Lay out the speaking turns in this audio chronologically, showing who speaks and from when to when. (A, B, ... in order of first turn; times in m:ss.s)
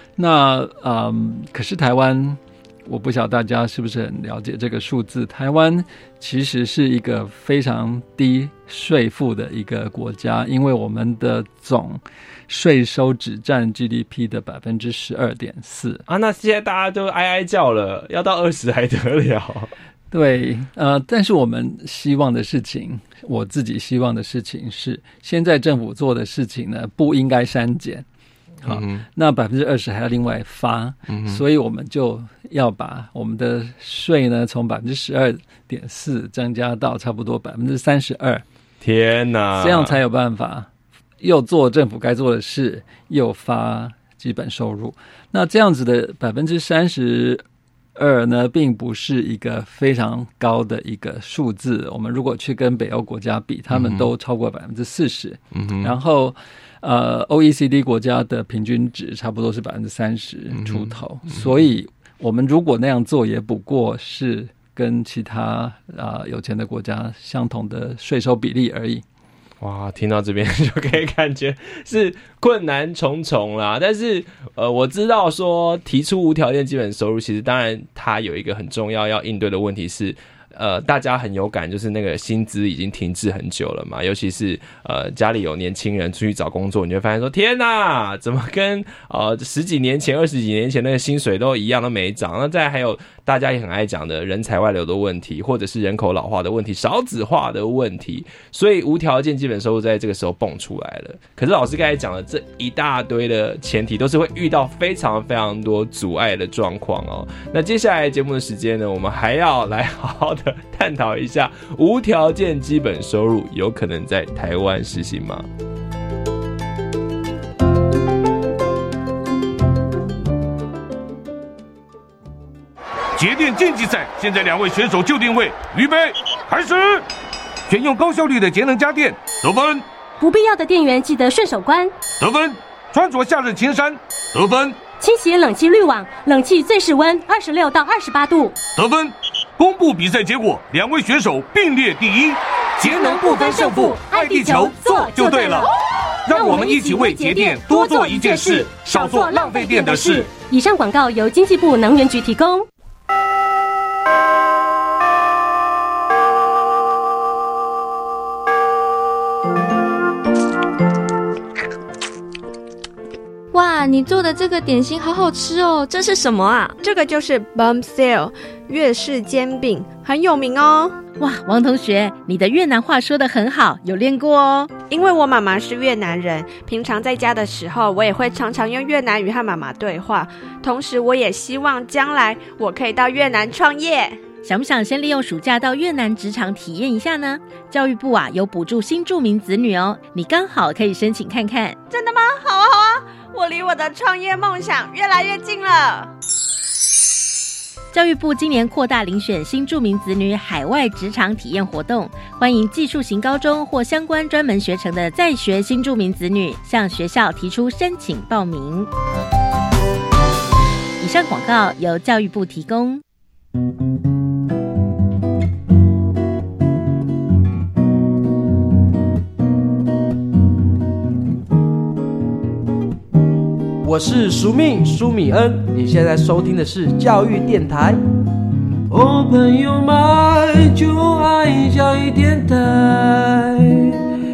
0:00.2-0:16.0 A
0:16.1-0:19.7 B
0:20.1-0:28.0 A
0:28.6-0:38.4 A
0:28.6-0:29.0 B
0:31.1-0:31.4 B
0:38.8-0:40.0 B
0:39.6-0:40.7 A
0:41.2-0:47.4 A
0:48.0-1:09.0 A
0:53.7-0:54.1 B
0:55.5-0:55.9 B
1:00.5-1:01.5 B
1:09.6-1:55.5 B
2:03.2-2:07.0 C
2:07.7-2:09.8 C
2:10.2-2:12.0 D
2:12.2-2:14.8 C
2:15.0-2:18.6 D
2:18.7-2:25.7 C
2:22.8-2:25.7 D
2:26.3-2:30.3 C
2:26.3-2:32.6 D
2:43.5-2:46.5 E
2:46.4-2:51.0 F
2:51.2-2:54.7 G
2:54.9-3:04.2 F
3:04.4-3:11.8 G
3:11.9-3:16.1 F
3:17.9-3:28.9 G
3:31.0-3:33.0 G
3:43.8-3:48.0 H
3:48.9-3:54.0 H